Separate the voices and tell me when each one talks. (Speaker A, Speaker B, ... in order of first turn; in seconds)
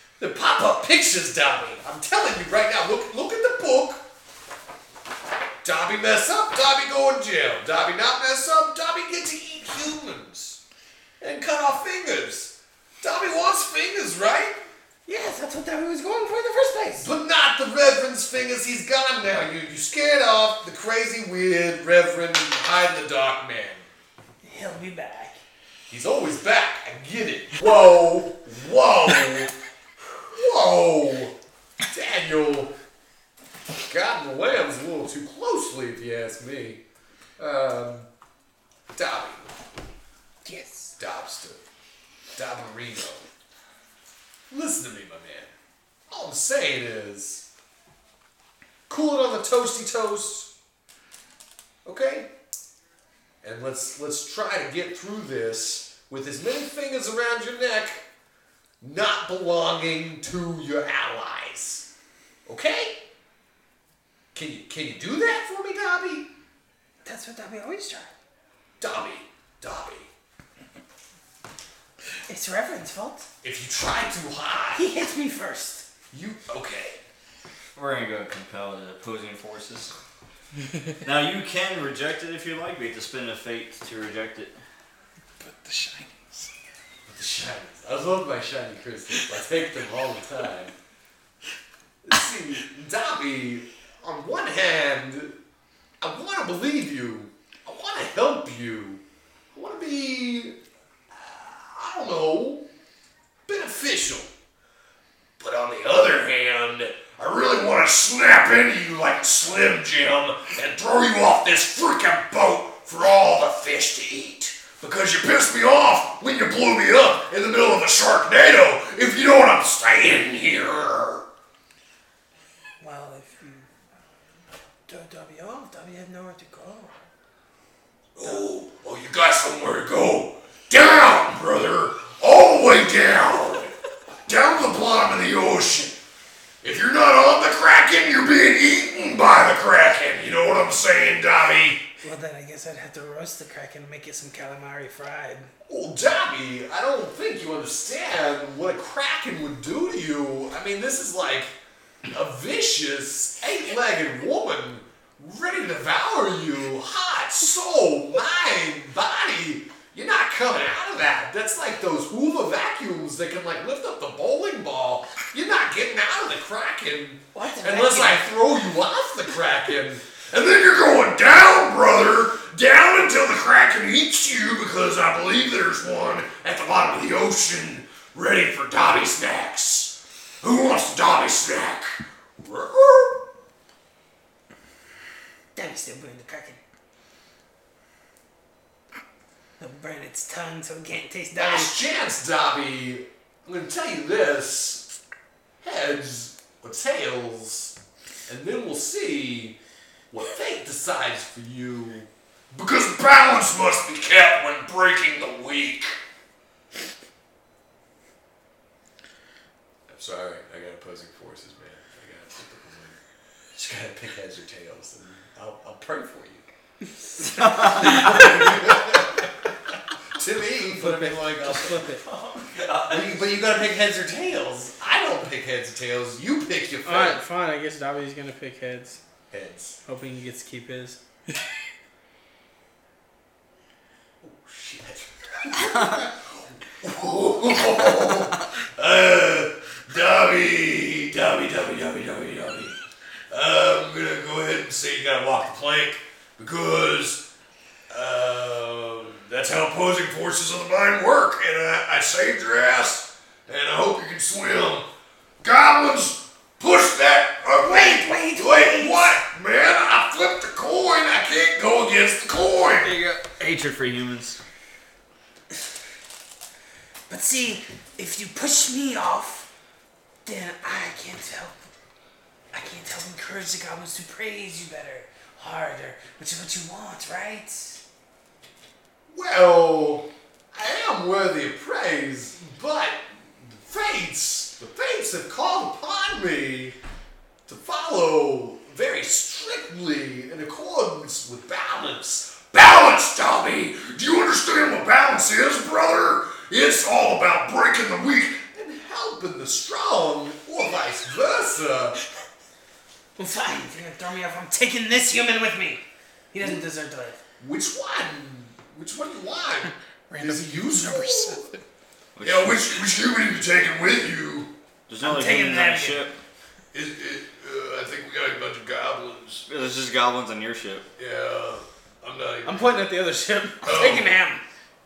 Speaker A: 0.2-4.0, 5.6-10.6, 11.2-14.6, 17.0-23.9, 25.9-29.5, 30.3-31.4, 31.9-32.7, 33.9-36.8, 37.4-38.1, 39.0-39.5, 41.0-41.6, 42.4-43.3, 44.5-45.5, 46.1-47.5, 48.9-50.5, 51.9-52.3, 53.4-58.0, 58.8-61.9, 62.5-63.0, 64.3-66.3, 68.8-70.1, 73.4-74.8, 76.1-77.0, 87.1-90.7, 92.0-95.4, 96.0-99.0, 99.5-100.6, 101.1-102.7, 103.5-104.3, 105.4-121.2, 128.2-136.0, 136.6-141.8, 145.7-151.5, 152.1-183.2, 191.4-194.9, 195.6-197.8, 198.3-199.6, 200.1-206.0, 209.9-213.0, 213.6-216.4, 217.6-219.3, 220.1-227.2, 229.3-229.8, 234.2-247.2, 247.9-254.9, 255.4-263.0, 279.1-286.8, 287.5-302.0, 307.4-311.6, 312.2-314.5, 316.7-319.5, 321.0-322.8, 323.6-324.1
Speaker B: 15.1-17.1, 24.4-25.4, 40.5-40.9, 67.0-68.1, 72.3-73.3, 74.8-75.9, 122.8-123.7, 124.9-127.0, 142.0-145.5, 167.3-168.3, 185.6-186.6, 189.6-191.8, 257.6-259.1, 267.1-269.5, 270.2-271.6, 272.5-277.8, 303.2-307.2, 315.0-316.1, 323.6-324.4
Speaker C: 77.8-79.9, 81.0-84.6, 217.3-218.1, 222.1-223.2, 262.8-264.4, 312.2-312.6, 314.9-316.1, 319.5-320.9
Speaker D: 85.4-86.5, 310.1-311.6
Speaker E: 220.6-222.0, 226.8-229.0, 229.9-231.0, 322.4-323.9